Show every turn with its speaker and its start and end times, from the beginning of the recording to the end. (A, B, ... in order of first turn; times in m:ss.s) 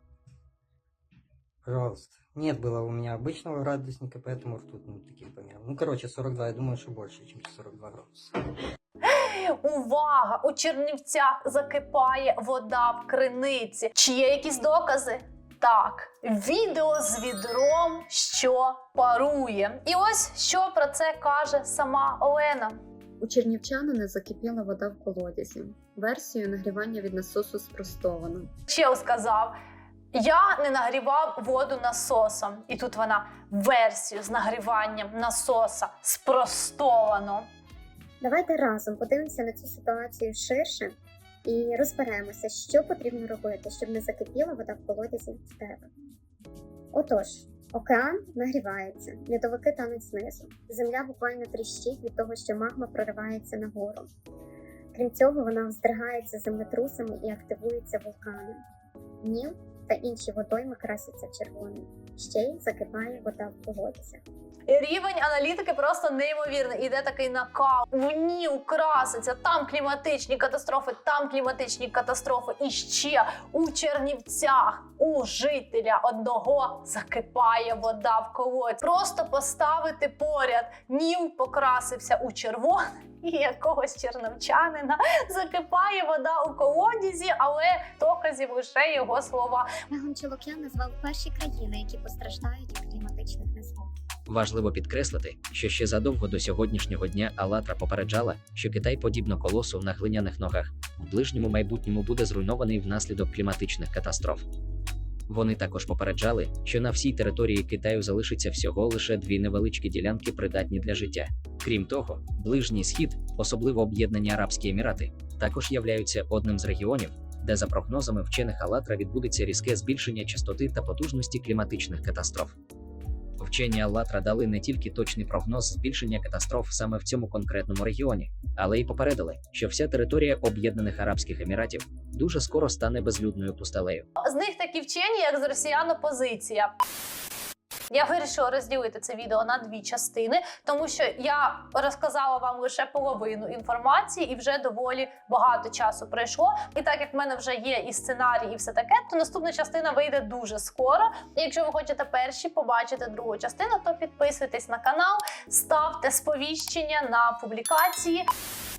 0:01.6-0:08.4 A
0:09.0-0:22.8 B
0:23.2-0:28.5 C
0:28.7-0:29.6 B
0:30.1-0:37.5 B
0:38.2-0:45.9 D
0:46.9-0:54.1 D
0:54.9-0:58.6 D
0:59.2-1:04.2 D
1:04.7-1:29.7 B
1:29.9-1:33.9 D
1:34.3-1:44.4 E
1:45.3-2:02.6 E
2:03.4-2:14.1 E
2:14.2-2:16.7 B
2:17.9-2:38.3 B